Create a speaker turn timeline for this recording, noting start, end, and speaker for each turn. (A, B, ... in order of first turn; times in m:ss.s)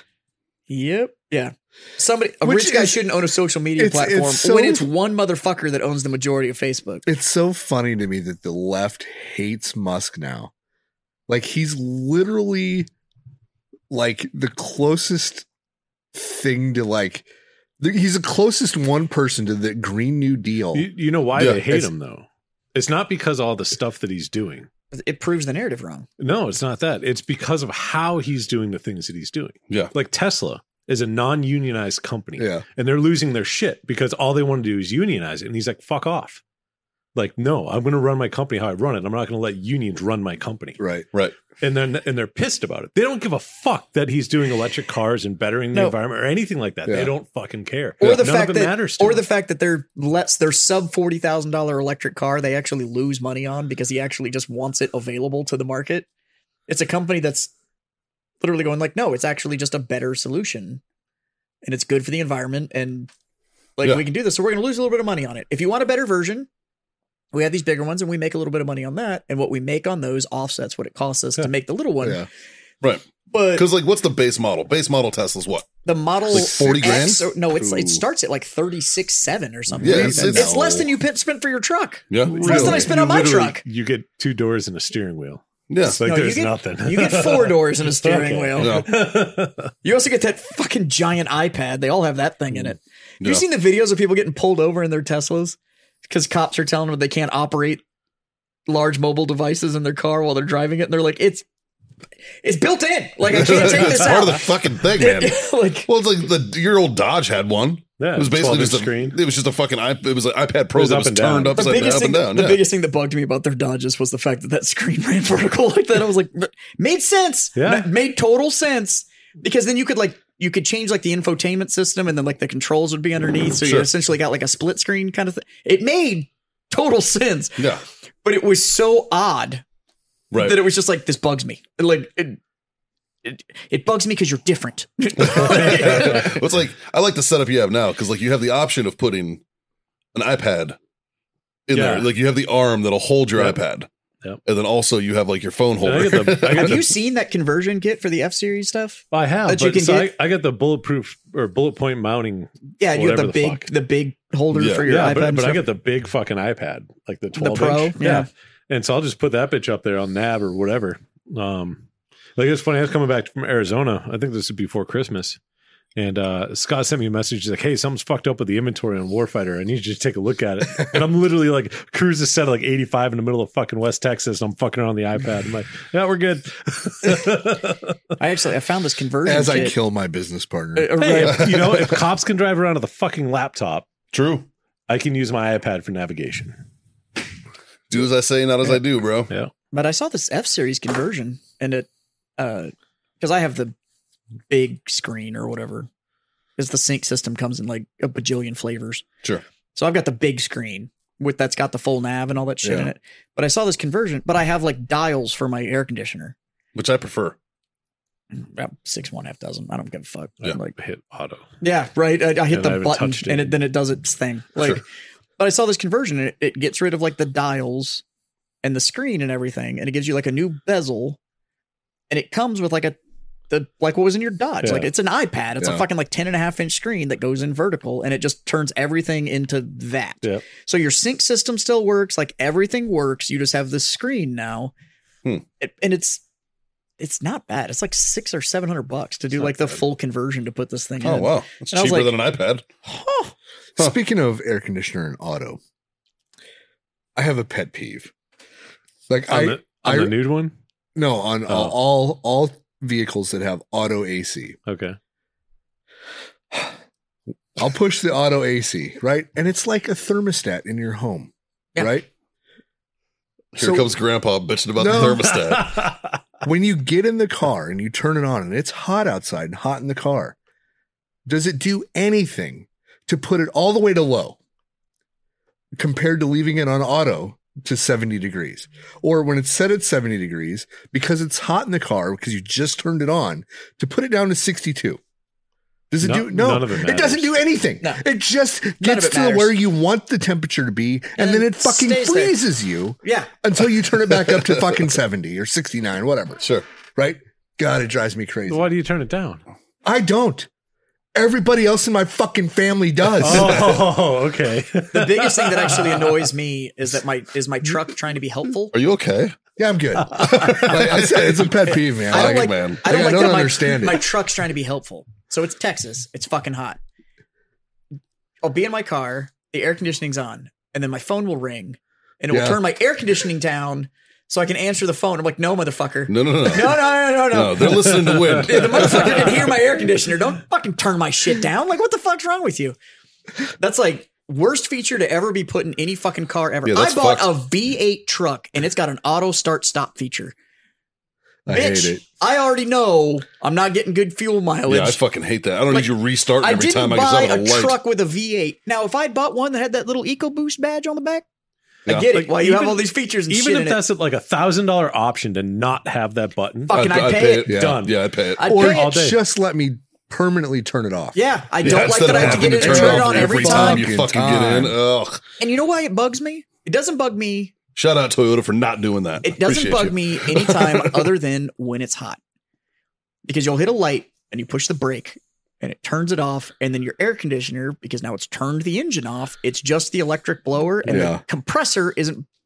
0:00.7-0:07.0 A
0:02.4-0:03.0 B
0:03.8-0:04.9 B
0:07.1-0:10.5 B
0:11.3-0:12.9 B
0:13.9-0:15.5 B
0:16.1-0:17.3 B
0:17.8-0:20.9 B
0:20.7-0:24.7 C
0:21.4-0:21.6 D
0:24.9-0:26.1 A
0:26.2-0:36.4 C
0:32.4-0:32.6 B
0:37.2-0:40.8 C
0:40.8-0:41.1 B
0:41.6-0:49.2 C
0:46.9-0:47.1 B
0:48.0-0:56.1 A
0:56.7-0:57.5 A
0:58.4-1:00.8 A
1:01.6-1:03.1 A
1:03.8-1:06.5 A
1:07.3-1:12.2 A
1:13.3-1:13.6 A
1:13.6-1:15.7 D
1:15.8-1:23.6 A
1:16.3-1:17.3 D
1:16.3-1:18.0 B
1:19.8-1:20.8 D
1:19.8-1:20.8 B
1:22.1-1:22.4 D
1:22.3-1:29.7 C
1:22.4-1:22.9 B
1:25.7-1:26.0 D
1:26.0-1:28.9 A
1:28.6-1:28.9 D
1:29.8-1:37.8 A
1:38.7-1:41.4 A
1:42.4-1:45.9 A
1:43.3-1:52.6 D
1:48.0-1:49.2 C
1:50.7-1:51.9 C
1:51.6-2:07.6 A
1:57.6-1:57.9 C
2:03.6-2:03.9 D
2:08.2-2:09.6 A
2:10.3-2:10.6 D
2:10.4-2:12.4 A
2:13.2-2:16.4 A
2:15.2-2:19.4 D
2:15.3-2:16.4 C
2:20.1-2:20.8 D
2:21.7-2:23.9 D
2:21.7-2:22.1 C
2:24.4-2:26.8 D
2:25.8-2:26.9 C
2:26.5-2:30.1 A
2:29.1-2:33.7 C
2:32.8-2:35.6 A
2:34.5-2:34.8 D
2:34.8-2:41.8 C
2:37.4-2:38.3 A
2:42.4-2:45.4 C
2:46.0-2:57.9 C
2:58.2-2:59.8 A
2:59.2-3:00.9 B
3:00.8-3:01.8 A
3:01.0-3:03.9 C
3:04.1-3:04.5 D
3:04.9-3:06.6 C
3:07.9-3:09.3 D
3:09.7-3:13.8 A
3:14.5-3:15.9 A
3:16.6-3:19.0 A
3:19.8-3:26.4 A
3:22.6-3:22.9 B
3:26.8-3:27.4 D
3:28.3-3:30.8 A
3:30.4-3:31.4 C
3:31.6-3:34.8 A
3:32.5-3:33.6 C
3:35.4-3:38.0 A
3:38.6-3:41.2 A
3:42.1-3:43.0 A
3:43.5-3:54.7 A
3:44.6-3:44.9 C
3:55.6-3:56.2 A
3:57.0-4:02.1 A
3:59.4-3:59.8 C
4:01.0-4:02.6 D
4:02.8-4:03.3 A
4:03.8-4:05.6 B
4:07.2-4:08.1 B
4:09.1-4:10.2 B
4:09.3-4:10.5 C
4:11.0-4:14.6 B
4:11.5-4:11.8 C
4:14.7-4:15.0 C
4:17.6-4:22.1 B
4:23.6-4:25.7 D
4:23.6-4:23.9 B
4:24.8-4:25.4 B
4:25.6-4:25.9 C
4:26.4-4:30.4 B
4:31.3-4:34.4 B
4:35.8-4:45.0 B
4:45.9-4:56.4 B
4:46.0-4:47.4 C
4:48.8-4:49.6 A
4:51.2-4:52.4 A
4:53.0-4:53.3 A
4:57.0-4:58.7 B
4:58.5-4:59.4 C
4:59.8-5:00.5 B
5:01.2-5:03.8 B
5:03.2-5:06.3 C
5:04.9-5:08.7 A
5:08.7-5:09.4 D
5:09.6-5:14.0 B
5:10.2-5:12.8 D
5:12.1-5:16.8 A
5:18.4-5:32.8 A
5:22.3-5:22.6 B
5:26.1-5:29.4 D
5:33.6-5:40.4 A
5:36.7-5:37.3 D
5:41.5-5:42.0 B
5:41.5-5:45.0 A
5:44.7-5:47.8 D
5:45.7-5:51.2 A
5:51.9-5:53.8 A
5:52.1-5:56.8 C
5:56.7-5:57.6 A
5:56.7-5:58.4 D
5:57.5-5:57.9 B
5:57.5-5:59.2 C
5:58.4-5:59.0 A
5:58.5-6:01.2 B
6:01.2-6:03.9 A
6:01.6-6:05.2 D
6:02.0-6:04.8 B
6:05.4-6:07.5 A
6:07.8-6:11.1 D
6:09.2-6:12.2 A
6:13.3-6:22.3 A
6:20.9-6:21.2 B